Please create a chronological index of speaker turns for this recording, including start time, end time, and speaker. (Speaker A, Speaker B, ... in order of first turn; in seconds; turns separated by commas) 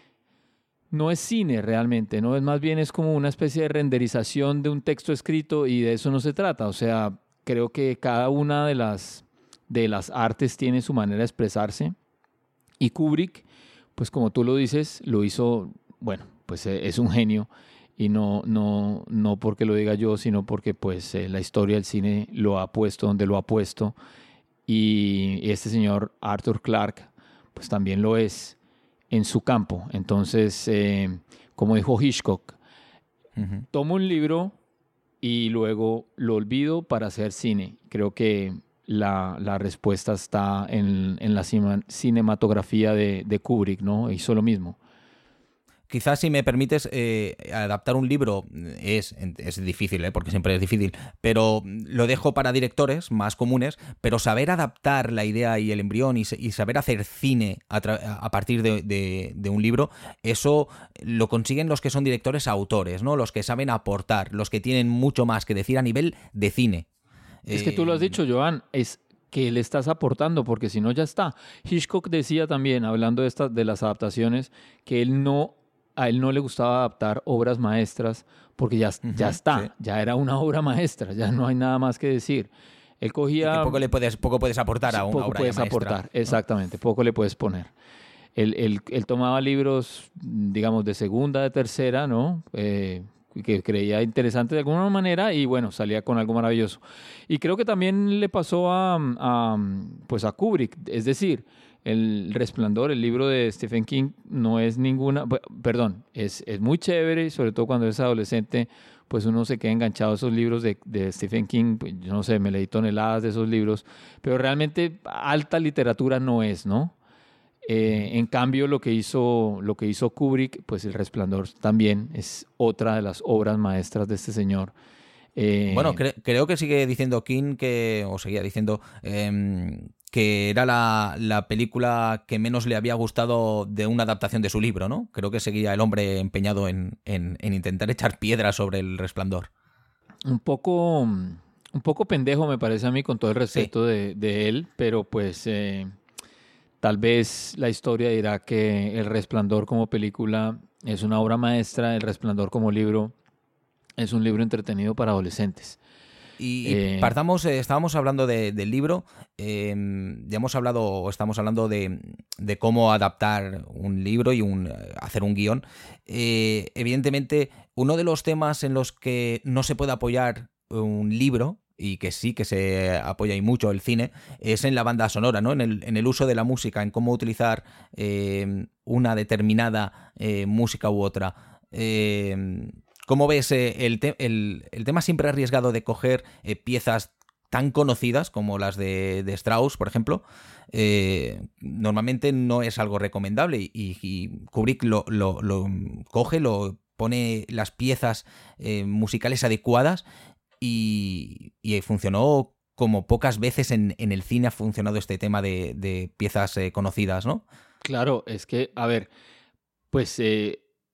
Speaker A: 0.9-11.9, Speaker A: 12.8-13.4, Speaker A: 13.9-23.9, Speaker A: 24.7-28.6, Speaker A: 29.1-32.6, Speaker B: 33.4-33.6, Speaker A: 33.7-34.5, Speaker A: 35.2-44.8, Speaker B: 45.9-66.8, Speaker B: 67.5-68.2, Speaker A: 67.5-83.8, Speaker B: 79.0-79.7, Speaker B: 83.4-86.0, Speaker A: 84.9-87.7, Speaker A: 88.3-117.0, Speaker A: 117.7-124.7, Speaker A: 125.3-126.0, Speaker B: 125.7-139.5, Speaker A: 140.2-145.9, Speaker A: 146.8-153.1, Speaker A: 154.0-155.8, Speaker B: 156.4-200.0, Speaker A: 156.6-157.1, Speaker B: 200.6-207.4, Speaker A: 207.8-209.1, Speaker A: 209.9-210.6